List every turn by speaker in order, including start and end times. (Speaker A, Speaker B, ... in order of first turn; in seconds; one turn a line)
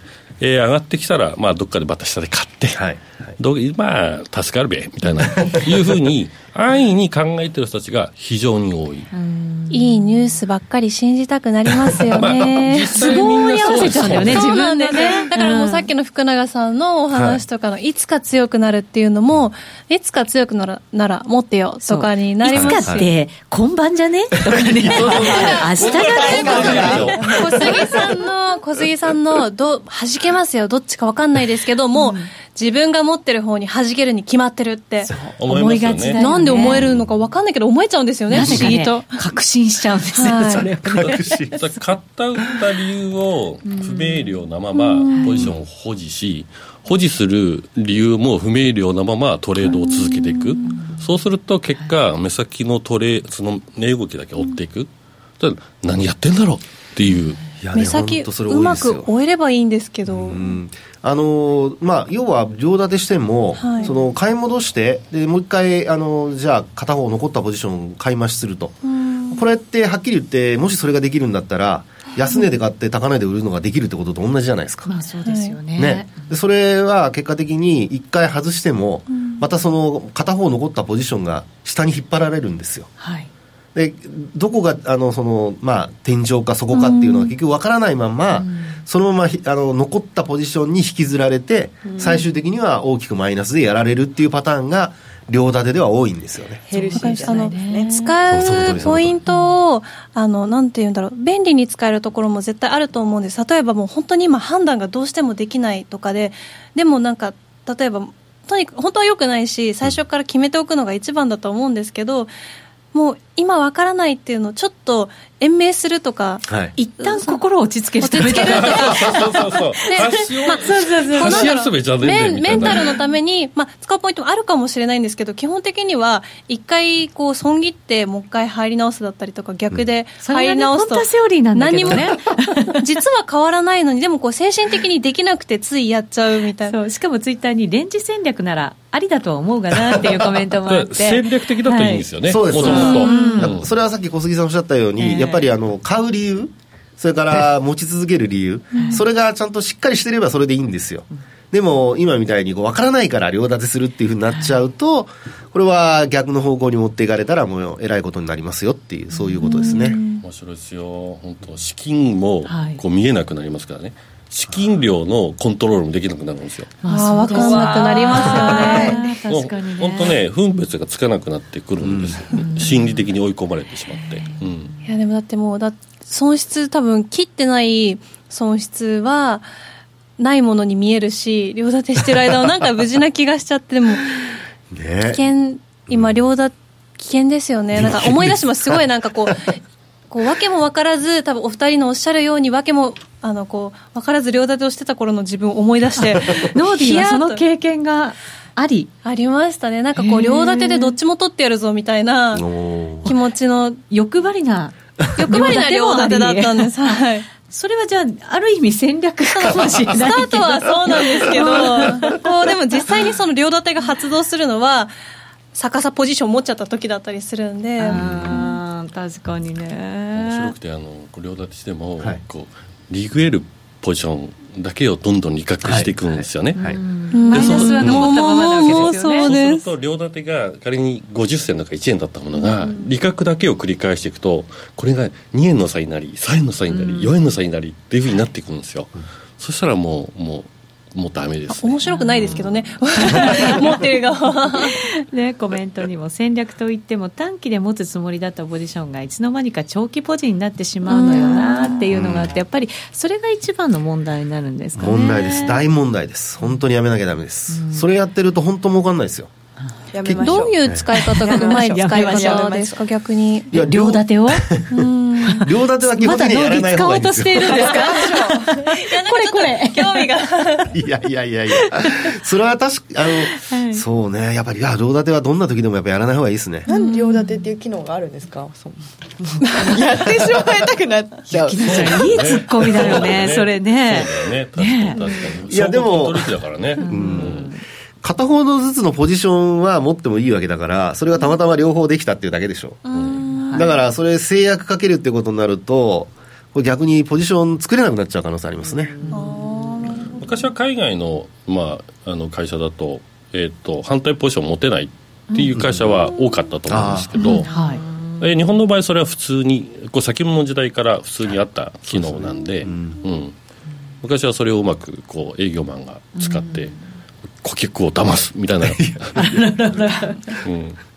Speaker A: 0.4-2.8
Speaker B: 2.8-3.3
Speaker A: 3.4-9.1
Speaker B: 5.2-6.1
Speaker C: 9.1-10.3
Speaker D: 9.7-23.1
Speaker A: 12.1-14.5
Speaker C: 12.9-15.9
Speaker B: 17.1-17.4
Speaker C: 21.9-27.8
Speaker B: 22.5-23.1
Speaker B: 24.6-25.4
Speaker E: 25.0-27.4
Speaker A: 25.8-27.4
Speaker D: 26.2-35.1
Speaker B: 26.2-27.3
Speaker C: 35.1-36.8
Speaker A: 35.4-36.9
Speaker D: 36.2-39.3
Speaker C: 38.3-41.3
Speaker D: 40.1-40.7
Speaker B: 40.8-41.6
Speaker A: 41.1-57.4
Speaker C: 43.6-44.2
Speaker D: 44.7-45.5
Speaker C: 45.1-45.4
Speaker D: 49.6-50.8
Speaker C: 50.7-51.0
Speaker B: 57.6-59.1
Speaker D: 57.7-60.6
Speaker B: 60.1-74.9
Speaker D: 63.6-63.9
Speaker D: 68.9-69.4
Speaker C: 74.9-76.1
Speaker D: 75.2-75.5
Speaker B: 75.8-82.9
Speaker C: 83.0-83.3
Speaker B: 83.8-96.7
Speaker D: 86.7-87.3
Speaker C: 88.3-88.8
Speaker E: 91.9-92.2
Speaker E: 96.7-98.2
Speaker C: 96.7-98.2
Speaker D: 96.9-112.3
Speaker B: 98.3-99.2
Speaker D: 112.9-116.5
Speaker B: 116.5-116.7
Speaker C: 116.8-119.3
Speaker D: 117.0-117.4
Speaker D: 118.0-136.8
Speaker A: 118.2-123.0
Speaker C: 119.9-121.5
Speaker C: 130.2-132.8
Speaker C: 136.7-143.6
Speaker A: 140.6-143.7
Speaker B: 142.2-160.0
Speaker D: 142.6-143.4
Speaker C: 145.0-145.5
Speaker D: 148.7-149.0
Speaker C: 148.7-149.0
Speaker C: 159.1-160.0
Speaker D: 159.4-160.2
Speaker A: 160.2-166.7
Speaker C: 162.5-162.8
Speaker C: 166.8-170.2
Speaker D: 166.9-169.0
Speaker A: 167.3-174.8
Speaker B: 168.3-168.7
Speaker B: 171.8-172.2
Speaker C: 172.3-173.1
Speaker C: 174.0-174.9
Speaker D: 174.9-179.5
Speaker D: 180.2-184.4
Speaker B: 184.7-185.2
Speaker D: 185.1-189.6
Speaker B: 185.9-186.1
Speaker B: 187.8-189.3
Speaker D: 190.1-197.4
Speaker C: 196.0-198.9
Speaker D: 199.0-202.5
Speaker C: 200.0-200.9
Speaker B: 202.3-203.2
Speaker D: 203.0-203.8
Speaker C: 203.9-212.2
Speaker D: 205.2-207.3
Speaker D: 209.3-214.9
Speaker D: 215.5-218.5
Speaker C: 217.8-220.5
Speaker B: 217.9-218.5
Speaker A: 220.1-226.6
Speaker B: 225.6-226.8
Speaker C: 226.5-229.3
Speaker D: 227.1-229.7
Speaker A: 227.3-241.8
Speaker C: 236.7-237.1
Speaker D: 241.6-244.8
Speaker C: 241.9-243.7
Speaker C: 244.4-255.6
Speaker D: 250.9-251.9
Speaker B: 251.9-252.3
Speaker B: 254.8-259.3
Speaker C: 257.5-257.9
Speaker E: 259.9-262.5
Speaker B: 260.0-260.8
Speaker D: 260.2-263.5
Speaker C: 260.9-262.8
Speaker C: 263.5-264.5
Speaker B: 263.5-267.5
Speaker D: 264.7-265.4
Speaker C: 265.3-270.6
Speaker D: 267.4-270.7
Speaker E: 267.5-268.4
Speaker B: 270.7-276.7
Speaker C: 271.8-272.1
Speaker C: 273.4-273.9
Speaker E: 276.7-281.3
Speaker D: 276.7-277.4
Speaker B: 281.3-282.1
Speaker C: 281.3-285.0
Speaker A: 281.6-287.5
Speaker B: 285.5-287.5
Speaker C: 286.8-287.6
Speaker B: 288.0-292.8
Speaker D: 292.9-293.8
Speaker A: 292.9-293.2
Speaker C: 293.4-293.7
Speaker B: 293.5-299.0
Speaker C: 299.0-299.4
Speaker D: 299.1-300.2
Speaker A: 300.2-307.5
Speaker B: 305.5-305.9
Speaker B: 306.7-307.2
Speaker C: 307.2-307.9
Speaker A: 308.2-313.4
Speaker B: 311.9-313.0
Speaker A: 314.0-316.8
Speaker C: 316.2-316.8
Speaker A: 317.4-319.3
Speaker B: 318.6-319.5
Speaker C: 319.2-320.4
Speaker A: 320.4-320.8